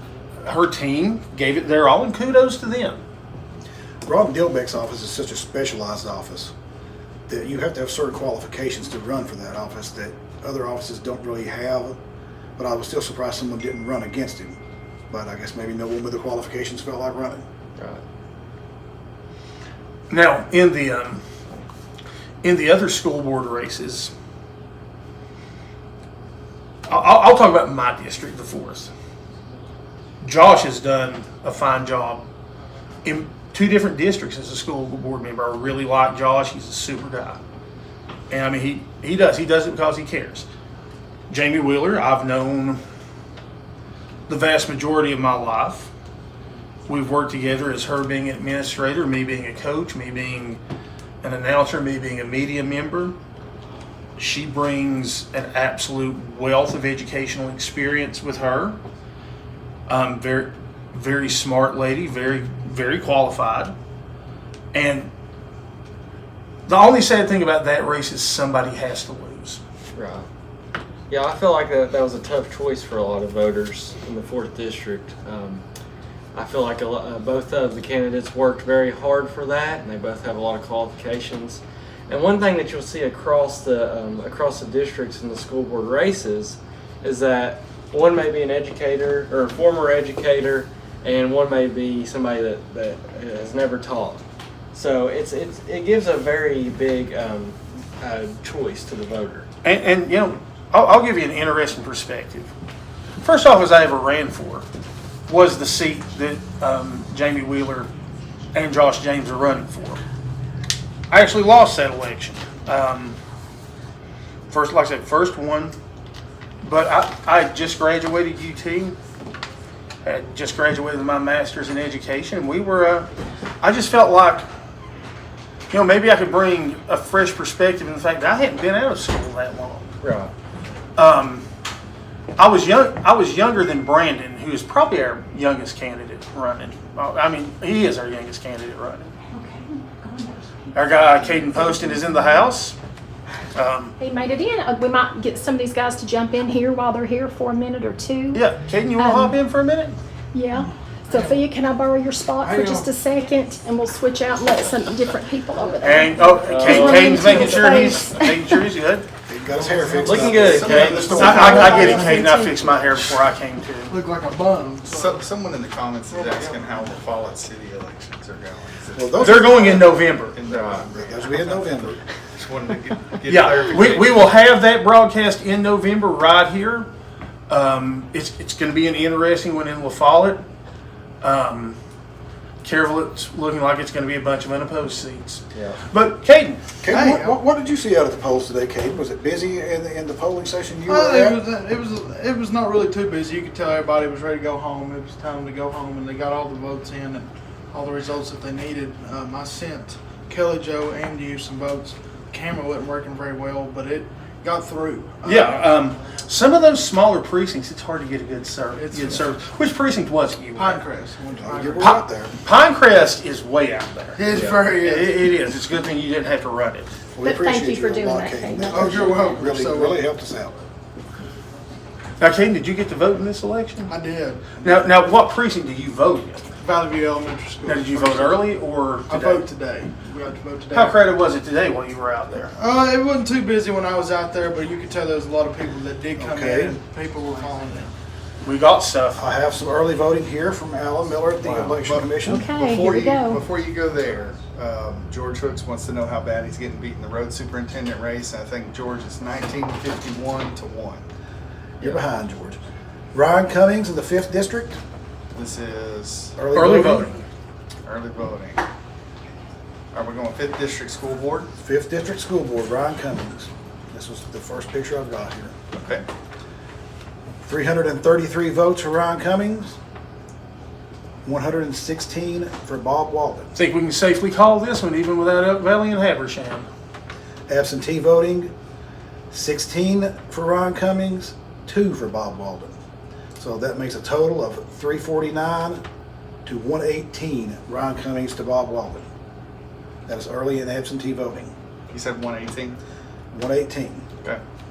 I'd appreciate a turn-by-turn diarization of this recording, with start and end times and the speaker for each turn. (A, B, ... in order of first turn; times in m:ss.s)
0:00.4-0:03.0 A
0:04.0-0:06.5 B
0:07.3-0:12.0 B
0:12.6-0:14.6 B
0:15.1-0:17.4 B
0:17.8-0:18.0 C
0:20.1-0:21.2 A
0:22.4-0:24.1 A
0:26.9-0:28.9 A
0:30.2-0:32.3 A
0:33.0-0:37.4 A
0:38.3-0:40.5 A
0:41.3-0:42.8 A
0:44.3-0:45.9 A
0:46.9-0:50.6 A
0:51.2-0:53.2 A
0:54.2-0:58.8 A
0:59.9-1:03.7 A
1:04.7-1:05.1 A
1:06.7-1:09.6 A
1:09.9-1:10.3 C
1:11.1-1:15.6 C
1:16.3-1:34.2 C
1:34.7-1:39.5 C
1:39.6-1:42.5 A
1:43.2-1:44.6 A
1:45.3-1:47.9 A
1:48.5-1:50.0 A
1:51.1-1:53.2 A
1:54.5-1:55.8 A
1:56.6-1:59.0 A
2:00.0-2:03.1 A
2:03.6-2:04.5 A
2:05.7-2:10.0 A
2:10.0-2:10.3 C
2:11.0-2:11.4 A
2:12.4-2:19.1 A
2:19.3-2:20.3 D
2:20.7-2:22.8 A
2:23.5-2:23.9 A
2:24.0-2:28.4 D
2:28.3-2:30.0 A
2:29.0-2:29.4 D
2:30.3-2:38.6 D
2:32.4-2:33.0 E
2:35.8-2:39.1 A
2:36.4-2:37.7 C
2:39.3-2:42.1 B
2:39.6-2:40.8 E
2:40.0-2:42.0 C
2:40.2-2:41.9 F
2:40.9-2:43.9 A
2:41.0-2:42.7 D
2:41.7-2:42.2 E
2:43.9-2:45.2 E
2:44.8-2:54.2 F
2:46.1-2:46.8 E
2:49.0-2:49.9 B
2:49.2-2:50.4 A
2:50.5-2:50.8 C
2:50.9-2:52.0 B
2:53.3-2:56.9 A
2:57.5-3:00.4 A
3:01.2-3:01.8 A
3:02.6-3:06.6 A
3:05.5-3:05.8 C
3:06.8-3:11.4 B
3:06.9-3:07.3 E
3:10.9-3:25.7 E
3:25.2-3:30.8 A
3:28.7-3:29.3 E
3:30.5-3:32.0 E
3:31.4-3:32.3 B
3:31.8-3:36.9 A
3:34.2-3:35.4 E
3:37.1-3:40.6 B
3:37.2-3:38.9 D
3:38.6-3:40.0 E
3:42.2-3:43.9 A
3:43.8-3:44.6 E
3:44.6-3:46.4 A
3:46.6-3:48.5 E
3:47.6-3:49.4 A
3:49.1-3:51.0 E
3:50.7-3:52.5 A
3:52.5-3:57.9 E
3:56.2-3:56.8 B
3:58.4-3:59.2 A
3:59.1-4:02.5 B
4:01.4-4:11.0 F
4:02.2-4:03.4 D
4:11.8-4:12.6 B
4:13.1-4:14.8 B
4:15.3-4:16.4 F
4:16.4-4:17.1 B
4:16.5-4:17.2 A
4:17.8-4:18.6 F
4:19.9-4:21.5 F
4:21.6-4:25.6 B
4:25.7-4:26.0 F
4:27.4-4:29.8 B
4:31.2-4:33.5 B
4:33.5-4:36.7 A
4:37.5-4:38.5 B
4:39.3-4:42.7 B
4:43.4-4:45.8 B
4:46.4-4:49.0 B
4:50.0-4:51.5 B
4:51.9-4:52.8 F
4:53.3-4:54.0 B